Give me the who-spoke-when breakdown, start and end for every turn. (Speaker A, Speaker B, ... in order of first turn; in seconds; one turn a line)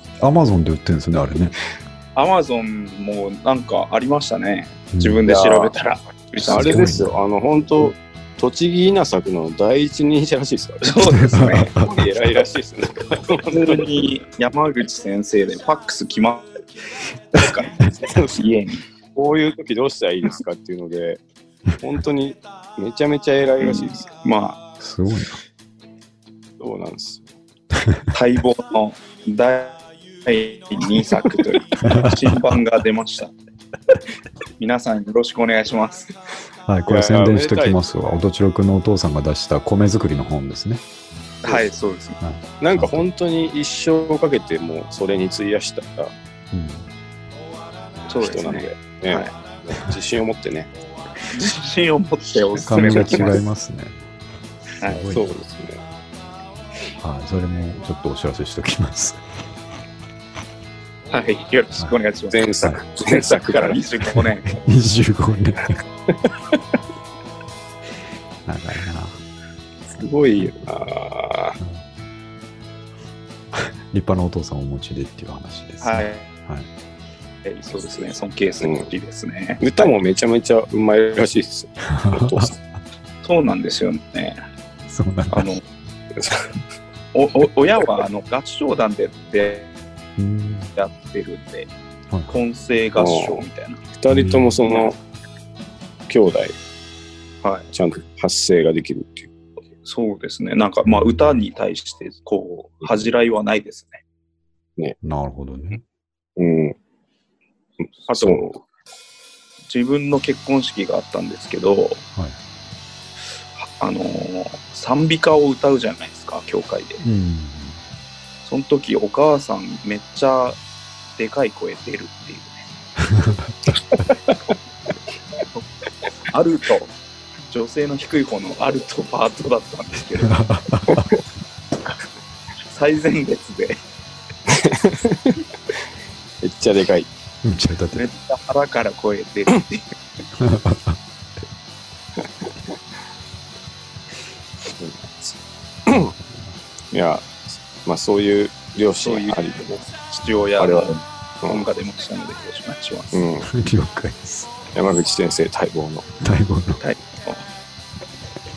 Speaker A: 0.2-1.6
Speaker B: 2.1-6.8
Speaker A: 4.9-5.2
Speaker C: 5.3-5.7
Speaker A: 6.5-7.2
Speaker C: 6.5-13.8
Speaker B: 10.8-11.7
Speaker A: 11.2-11.9
Speaker B: 13.5-16.6
Speaker B: 17.3-18.8
Speaker C: 17.9-18.4
Speaker C: 19.1-21.2
Speaker C: 21.8-24.1
Speaker B: 23.6-24.6
Speaker A: 24.8-25.4
Speaker C: 26.6-27.3
Speaker A: 27.7-28.1
Speaker B: 28.1-33.3
Speaker A: 31.9-32.4
Speaker B: 34.6-36.1
Speaker A: 36.7-40.8
Speaker C: 36.9-38.2
Speaker B: 41.4-42.2
Speaker A: 42.2-43.1
Speaker C: 42.6-46.1
Speaker A: 46.5-46.9
Speaker B: 48.1-49.3
Speaker C: 48.2-50.7
Speaker B: 51.3-53.4
Speaker A: 52.7-54.0
Speaker C: 52.9-53.2
Speaker A: 54.8-55.4
Speaker C: 55.1-55.8
Speaker A: 57.0-59.2
Speaker B: 61.1-64.5
Speaker C: 62.3-63.8
Speaker A: 64.2-65.8
Speaker A: 68.5-69.2
Speaker C: 70.0-71.6
Speaker A: 73.5-76.7
Speaker B: 75.8-76.3
Speaker B: 77.5-79.9
Speaker C: 78.6-78.9
Speaker C: 79.6-82.6
Speaker A: 81.9-82.6
Speaker B: 83.2-84.4
Speaker A: 84.9-85.5
Speaker B: 85.3-85.6
Speaker C: 86.2-86.5
Speaker B: 87.1-89.7
Speaker A: 90.2-90.7
Speaker B: 90.8-91.7
Speaker A: 92.1-92.3
Speaker B: 92.3-93.8
Speaker C: 93.0-95.0
Speaker A: 94.1-94.6
Speaker C: 96.1-96.6
Speaker B: 97.4-97.7
Speaker C: 97.7-99.3
Speaker B: 99.8-104.0
Speaker A: 100.8-101.4
Speaker A: 105.0-105.8
Speaker C: 106.4-106.8
Speaker C: 107.8-108.6
Speaker B: 108.1-108.5
Speaker B: 109.7-112.0
Speaker B: 113.6-117.0
Speaker A: 117.0-117.8
Speaker B: 118.5-120.6
Speaker B: 121.2-122.6
Speaker A: 123.1-123.5
Speaker B: 126.3-126.9
Speaker B: 127.5-130.3
Speaker A: 130.2-131.1
Speaker B: 132.7-133.8
Speaker C: 134.5-135.4
Speaker C: 136.4-137.1
Speaker A: 137.4-138.1
Speaker B: 137.9-139.9
Speaker A: 140.4-141.0
Speaker C: 142.2-142.5
Speaker C: 144.7-145.4
Speaker C: 145.9-146.1
Speaker A: 146.1-146.6
Speaker C: 146.9-149.8
Speaker B: 149.0-149.4
Speaker B: 149.9-153.2
Speaker C: 150.6-151.6
Speaker C: 153.1-153.5
Speaker A: 153.5-154.5
Speaker C: 154.8-156.1
Speaker A: 156.2-156.8
Speaker B: 156.8-157.4